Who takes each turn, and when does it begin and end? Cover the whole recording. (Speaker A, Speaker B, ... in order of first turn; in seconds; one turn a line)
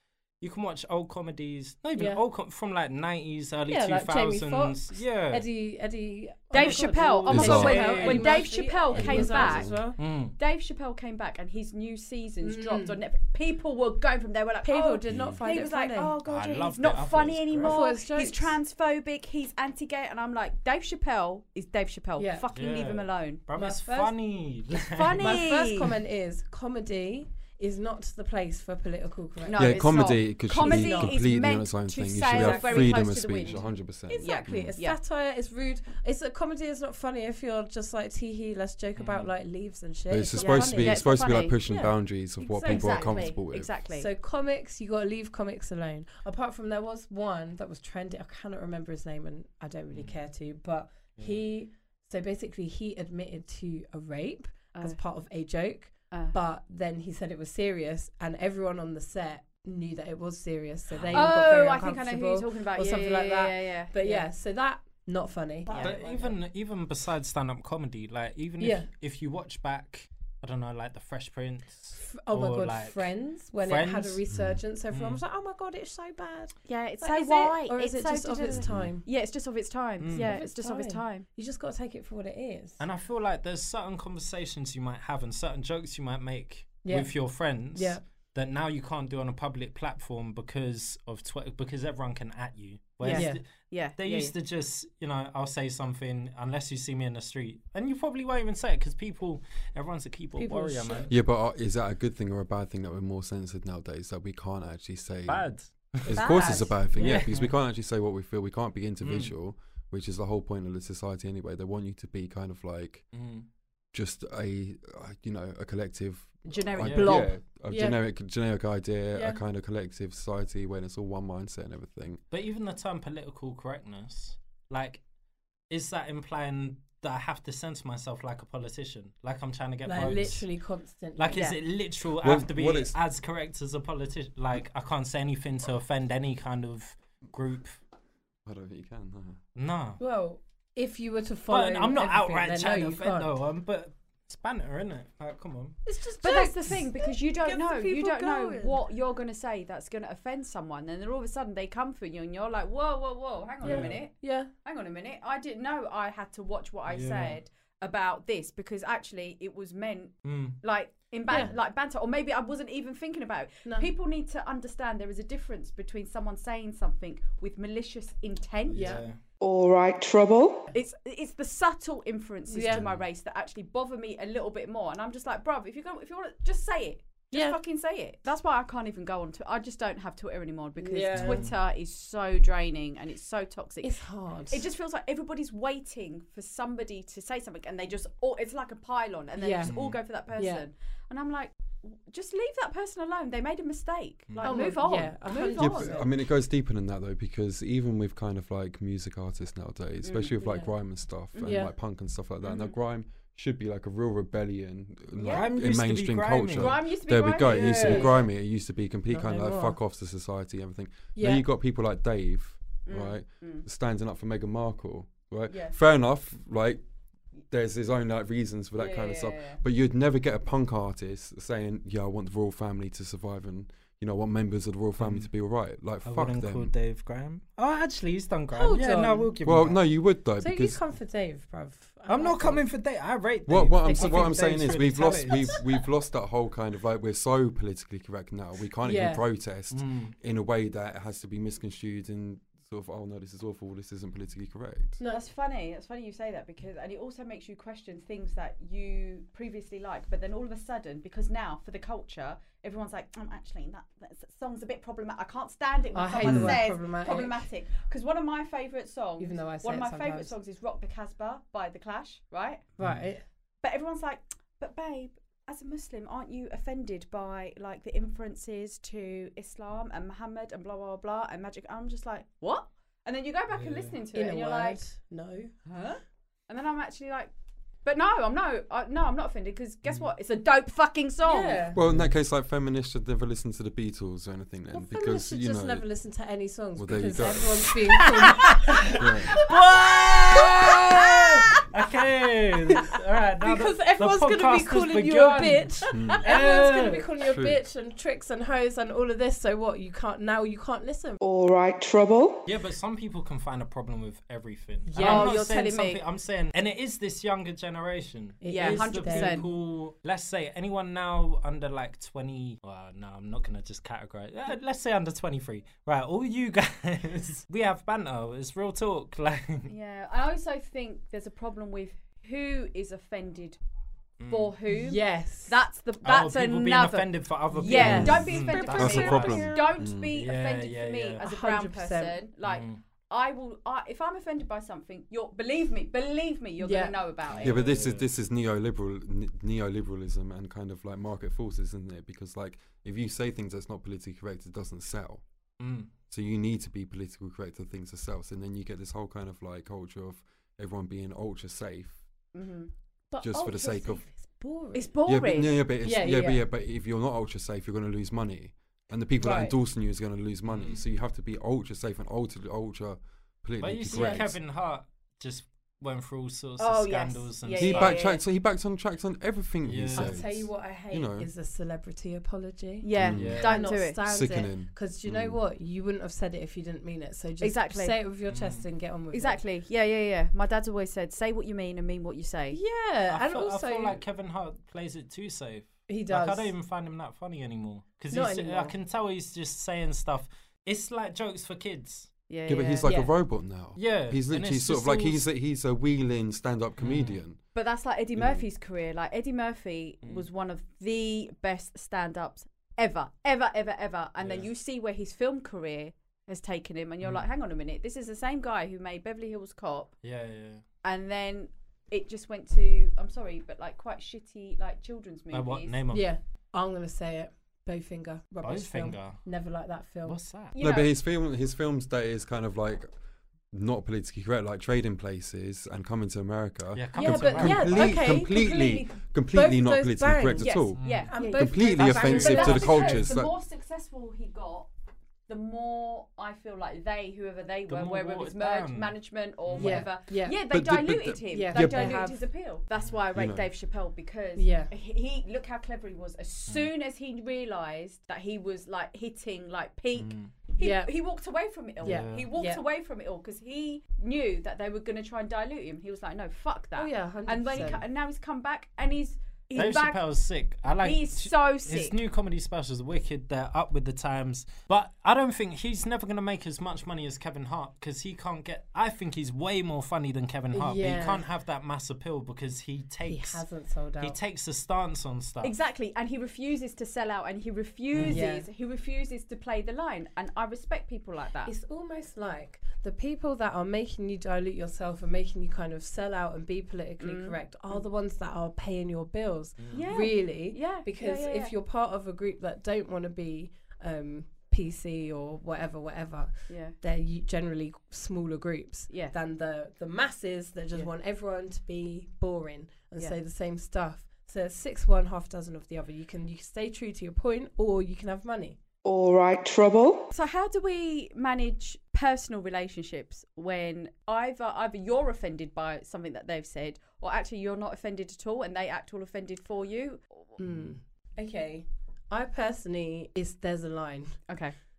Speaker A: 0.4-5.5
Speaker B: 2.0-2.2
Speaker B: 3.7-10.0
Speaker C: 6.5-23.4
Speaker A: 6.6-8.5
Speaker D: 7.3-7.8
Speaker D: 8.9-9.8
Speaker A: 10.0-10.4
Speaker B: 12.4-13.0
Speaker B: 14.7-16.2
Speaker D: 15.1-15.4
Speaker A: 16.2-17.9
Speaker B: 17.6-18.6
Speaker B: 22.2-22.4
Speaker A: 22.5-25.5
Speaker B: 23.6-24.2
Speaker C: 24.9-26.0
Speaker B: 25.2-31.3
Speaker C: 29.4-35.0
Speaker D: 29.6-34.8
Speaker B: 32.3-33.3
Speaker B: 34.1-43.4
Speaker A: 39.0-39.3
Speaker D: 40.1-43.7
Speaker C: 40.3-41.6
Speaker C: 42.6-44.1
Speaker B: 44.0-66.4
Speaker C: 56.1-56.4
Speaker A: 61.0-61.3
Speaker C: 61.1-64.3
Speaker C: 65.7-66.0
Speaker A: 65.8-74.2
Speaker B: 68.6-68.9
Speaker B: 72.0-79.0
Speaker D: 74.3-74.6
Speaker A: 74.9-75.2
Speaker C: 76.7-81.3
Speaker D: 78.5-79.0
Speaker A: 80.0-80.4
Speaker B: 80.1-82.8
Speaker A: 82.8-101.1
Speaker B: 86.8-88.0
Speaker C: 93.0-94.3
Speaker B: 93.0-93.4
Speaker B: 100.4-101.1
Speaker D: 101.1-113.1
Speaker A: 105.3-106.4
Speaker B: 106.1-107.1
Speaker C: 106.2-106.8
Speaker A: 106.9-107.5
Speaker A: 109.0-109.3
Speaker A: 113.1-113.5
Speaker D: 113.9-122.2
Speaker C: 116.5-117.3
Speaker A: 116.8-117.2
Speaker B: 117.7-118.0
Speaker B: 119.1-119.4
Speaker A: 122.3-125.0
Speaker A: 125.7-130.5
Speaker B: 129.8-131.5
Speaker A: 131.2-137.8
Speaker D: 132.2-132.9
Speaker D: 138.4-139.4
Speaker A: 139.6-140.0
Speaker B: 140.0-143.3
Speaker A: 141.5-145.8
Speaker B: 145.8-148.8
Speaker C: 146.2-169.0
Speaker A: 153.6-154.0
Speaker B: 153.6-154.5
Speaker A: 156.9-157.4
Speaker A: 160.2-160.6
Speaker A: 168.7-169.2
Speaker B: 168.8-169.0
Speaker E: 169.4-170.7
Speaker C: 170.7-196.0
Speaker B: 172.5-172.8
Speaker B: 177.3-177.6
Speaker B: 180.8-181.4
Speaker A: 181.1-181.5
Speaker B: 183.8-184.7
Speaker B: 189.4-189.7
Speaker A: 189.7-190.0
Speaker B: 190.3-190.6
Speaker A: 194.3-194.8
Speaker B: 194.4-196.1
Speaker D: 195.4-216.8
Speaker C: 200.0-200.4
Speaker B: 200.4-200.7
Speaker B: 201.3-201.7
Speaker C: 202.4-202.8
Speaker C: 205.2-205.5
Speaker A: 205.3-206.8
Speaker C: 206.5-208.2
Speaker B: 207.4-208.2
Speaker B: 209.1-209.8
Speaker B: 211.2-211.4
Speaker C: 212.9-213.7
Speaker C: 215.5-215.8
Speaker D: 217.5-226.7
Speaker C: 218.8-219.6
Speaker A: 225.0-225.3
Speaker A: 226.0-229.8
Speaker B: 228.5-229.4
Speaker D: 229.4-230.8
Speaker B: 230.4-232.7
Speaker A: 232.1-235.6
Speaker D: 233.5-245.0
Speaker C: 233.8-234.3
Speaker B: 238.8-239.2
Speaker A: 239.7-240.2
Speaker C: 245.1-262.7
Speaker B: 255.9-257.5
Speaker D: 256.2-256.6
Speaker B: 259.2-260.3
Speaker A: 262.8-263.1
Speaker B: 262.8-263.2
Speaker C: 263.6-274.8
Speaker A: 273.5-274.0
Speaker B: 274.1-275.9
Speaker C: 275.7-275.9
Speaker C: 276.5-277.3
Speaker C: 277.9-281.7
Speaker B: 281.3-281.8
Speaker D: 281.7-285.9
Speaker A: 281.8-282.1
Speaker B: 284.7-288.7
Speaker D: 286.8-287.6
Speaker A: 287.7-297.1
Speaker D: 289.0-289.3
Speaker B: 290.3-291.7
Speaker B: 292.7-301.2
Speaker D: 295.9-296.3
Speaker D: 297.2-297.6
Speaker E: 301.2-302.5
Speaker A: 302.5-319.7
Speaker B: 304.9-305.4
Speaker C: 305.0-306.0
Speaker B: 308.4-309.5
Speaker C: 308.5-309.5
Speaker C: 319.7-323.6
Speaker A: 324.2-324.6
Speaker C: 324.3-337.6
Speaker B: 324.7-325.6
Speaker A: 326.0-331.2
Speaker B: 327.5-329.6
Speaker D: 327.8-330.1
Speaker B: 331.2-332.2
Speaker A: 332.4-332.8
Speaker B: 336.6-336.9
Speaker A: 337.4-338.1
Speaker D: 337.4-345.2
Speaker A: 345.6-345.9
Speaker D: 346.1-352.0
Speaker C: 352.3-352.7
Speaker B: 353.1-354.9
Speaker D: 353.2-354.0
Speaker C: 354.7-355.6
Speaker D: 355.1-364.4
Speaker B: 355.8-356.4
Speaker B: 359.2-359.6
Speaker A: 360.5-360.8
Speaker A: 363.6-368.0
Speaker B: 363.9-364.3
Speaker C: 366.6-368.2
Speaker D: 367.6-371.3
Speaker A: 369.6-370.3
Speaker B: 369.9-379.4
Speaker C: 372.8-374.0
Speaker D: 373.0-373.4
Speaker A: 373.1-373.8
Speaker D: 374.1-375.4
Speaker C: 377.4-378.0
Speaker A: 378.3-378.6
Speaker C: 379.1-382.6
Speaker B: 382.5-384.0
Speaker A: 383.1-392.1
Speaker B: 385.9-386.5
Speaker B: 388.1-388.8
Speaker C: 392.3-393.0
Speaker D: 392.5-397.4
Speaker B: 392.9-393.1
Speaker A: 393.8-395.2
Speaker A: 396.8-397.2
Speaker C: 397.5-409.9
Speaker A: 404.2-404.5
Speaker A: 410.0-410.6
Speaker C: 410.8-415.8
Speaker A: 415.3-416.1
Speaker B: 415.9-420.2
Speaker A: 418.4-419.2
Speaker A: 420.1-420.6
Speaker C: 420.5-420.9
Speaker D: 420.6-422.9
Speaker D: 423.5-433.3
Speaker A: 426.7-428.2
Speaker B: 426.9-433.1
Speaker C: 428.1-428.8
Speaker C: 430.4-434.7
Speaker A: 430.8-432.9
Speaker C: 435.3-460.0
Speaker A: 437.7-439.0
Speaker A: 439.5-439.9
Speaker B: 439.6-440.4
Speaker D: 440.5-442.1
Speaker B: 441.3-442.2
Speaker D: 443.1-443.5
Speaker B: 444.4-444.7
Speaker A: 449.9-450.3
Speaker B: 450.6-450.9
Speaker A: 451.8-452.3
Speaker B: 451.8-452.6
Speaker B: 456.8-457.8
Speaker A: 459.6-473.4
Speaker C: 460.8-462.0
Speaker B: 470.5-471.3
Speaker B: 473.1-474.2
Speaker A: 474.0-475.5
Speaker C: 475.4-481.5
Speaker A: 477.9-478.2
Speaker B: 478.0-478.5
Speaker B: 481.5-508.6
Speaker C: 487.0-487.8
Speaker A: 489.6-489.9
Speaker C: 489.7-491.5
Speaker C: 496.5-496.8
Speaker E: 508.8-510.1
Speaker C: 510.1-520.2
Speaker B: 520.4-524.2
Speaker C: 524.3-524.5